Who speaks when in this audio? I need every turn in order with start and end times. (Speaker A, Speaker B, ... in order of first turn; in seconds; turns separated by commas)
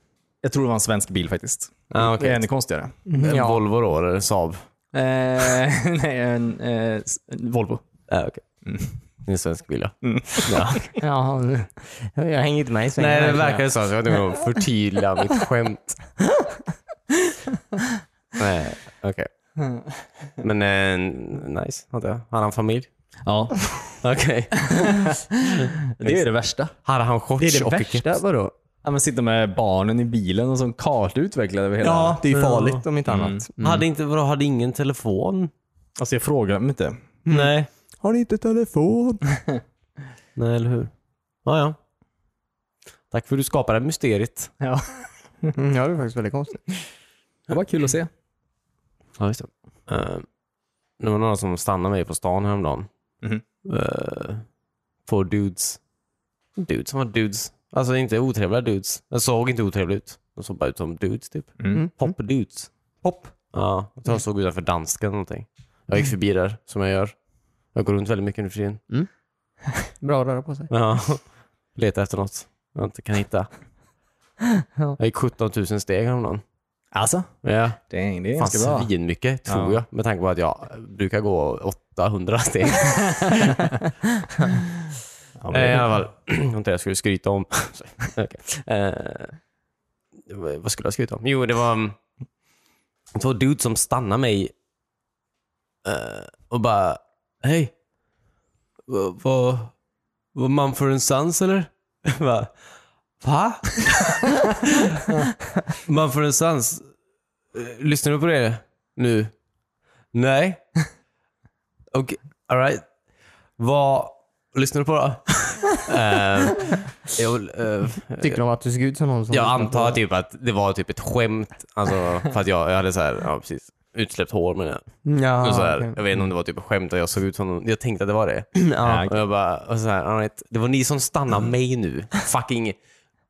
Speaker A: 0.4-3.1, Speaker B: 1.9-2.5, Speaker C: 3.1-3.6, Speaker B: 3.2-4.6, Speaker A: 4.9-7.8, Speaker B: 8.1-8.4, Speaker A: 8.6-8.9, Speaker B: 9.2-10.9, Speaker A: 10.0-10.8, Speaker C: 11.0-13.7, Speaker B: 13.0-16.0, Speaker B: 18.4-19.3, Speaker B: 20.4-22.9, Speaker A: 23.2-23.8, Speaker B: 24.0-26.2, Speaker A: 24.7-26.7, Speaker B: 26.8-28.2, Speaker C: 27.4-28.5, Speaker A: 28.8-32.2, Speaker C: 31.8-33.8, Speaker B: 32.3-32.8, Speaker A: 33.1-33.4, Speaker B: 33.6-35.5, Speaker A: 36.0-37.0, Speaker C: 37.2-39.2, Speaker B: 37.3-37.7, Speaker B: 40.4-40.9, Speaker B: 41.4-41.8, Speaker B: 43.1-44.5, Speaker A: 44.6-45.5, Speaker C: 45.5-46.7, Speaker A: 47.5-48.1, Speaker B: 49.2-50.3, Speaker B: 51.0-52.9, Speaker B: 53.6-54.5, Speaker B: 55.0-55.8, Speaker B: 56.6-62.7, Speaker C: 61.7-62.1, Speaker C: 63.0-63.3, Speaker B: 63.5-67.2, Speaker B: 67.7-68.8, Speaker C: 69.8-70.7, Speaker B: 70.7-73.5, Speaker B: 75.0-76.4, Speaker A: 76.9-78.9, Speaker B: 77.4-77.8, Speaker B: 78.3-83.7, Speaker A: 79.5-79.8, Speaker A: 85.4-85.9, Speaker B: 85.5-89.4, Speaker B: 90.3-92.0, Speaker B: 93.1-94.5, Speaker B: 95.8-97.7, Speaker B: 98.9-99.8, Speaker B: 100.3-102.6, Speaker B: 103.2-105.1, Speaker B: 105.7-106.9, Speaker B: 107.5-109.3, Speaker B: 110.1-110.7, Speaker B: 111.9-112.9, Speaker B: 113.6-118.4, Speaker C: 118.2-120.0, Speaker B: 119.3-132.8, Speaker C: 125.0-126.0, Speaker C: 128.6-129.1, Speaker A: 128.8-129.1